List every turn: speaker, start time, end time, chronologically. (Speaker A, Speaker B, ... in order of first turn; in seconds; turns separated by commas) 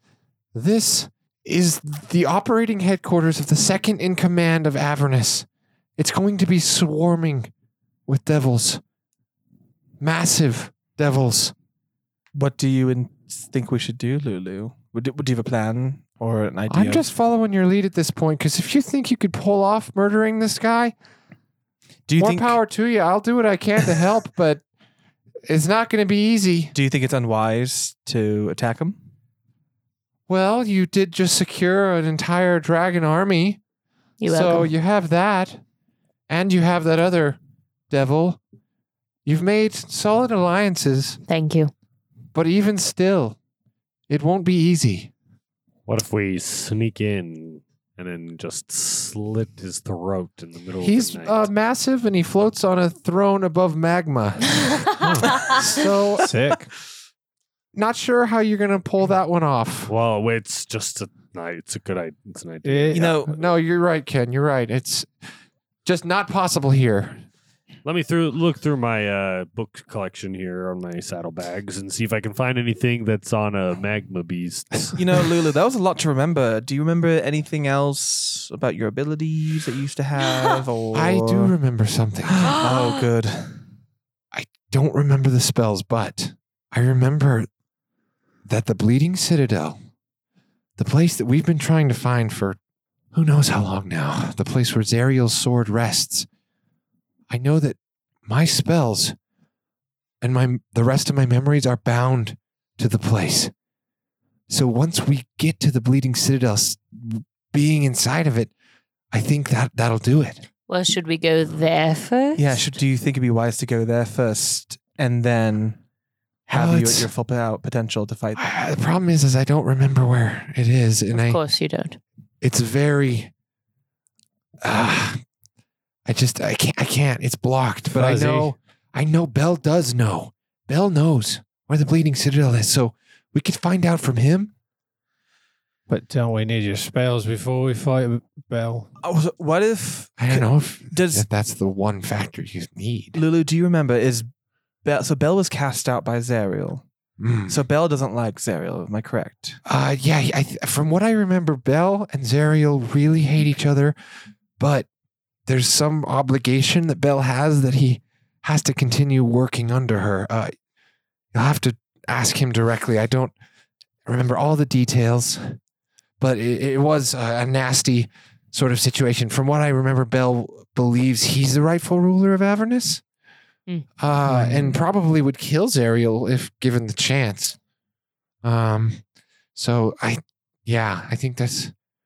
Speaker A: 0.5-7.5, Speaker A: 8.1-8.8, Speaker A: 10.0-11.5, Speaker B: 12.3-17.0, Speaker A: 16.7-20.9, Speaker B: 22.1-22.6, Speaker A: 22.2-24.6, Speaker A: 25.4-26.7, Speaker B: 26.7-29.0, Speaker A: 30.3-33.6, Speaker C: 34.2-34.7, Speaker A: 34.2-35.6, Speaker A: 36.3-37.4, Speaker A: 37.9-38.4, Speaker A: 39.2-41.2, Speaker C: 41.3-41.7, Speaker A: 42.3-43.4, Speaker A: 44.1-45.1, Speaker D: 45.9-51.5, Speaker A: 50.8-56.3, Speaker E: 55.0-56.7, Speaker A: 57.7-59.9, Speaker D: 59.9-63.1, Speaker E: 62.6-63.1, Speaker B: 62.9-63.4, Speaker A: 63.3-65.1, Speaker A: 65.8-67.2, Speaker D: 67.8-75.0, Speaker B: 75.0-81.5, Speaker A: 80.9-82.5, Speaker B: 82.4-83.6, Speaker C: 82.6-83.0, Speaker A: 84.3-87.5, Speaker A: 88.5-89.8, Speaker A: 90.8-92.6, Speaker A: 93.1-96.3, Speaker A: 97.3-99.2, Speaker A: 100.2-103.5, Speaker A: 104.5-108.5, Speaker A: 109.1-110.4, Speaker C: 110.7-112.7, Speaker B: 112.4-115.8, Speaker B: 116.5-118.4, Speaker A: 116.5-117.1, Speaker A: 118.3-121.4, Speaker C: 121.1-122.0, Speaker A: 122.4-123.3, Speaker A: 124.6-125.2, Speaker A: 126.0-134.5, Speaker E: 127.9-128.5, Speaker E: 135.9-138.9, Speaker B: 139.0-141.2, Speaker A: 140.2-143.2, Speaker B: 143.1-144.3, Speaker B: 144.8-146.8, Speaker A: 147.2-147.6, Speaker B: 147.5-149.6, Speaker A: 149.6-153.9, Speaker A: 154.6-154.9, Speaker A: 155.4-160.5, Speaker A: 161.3-163.3, Speaker A: 164.1-165.6, Speaker A: 166.2-173.0, Speaker A: 174.0-177.6, Speaker E: 174.3-174.7, Speaker A: 178.4-179.0, Speaker A: 179.5-181.7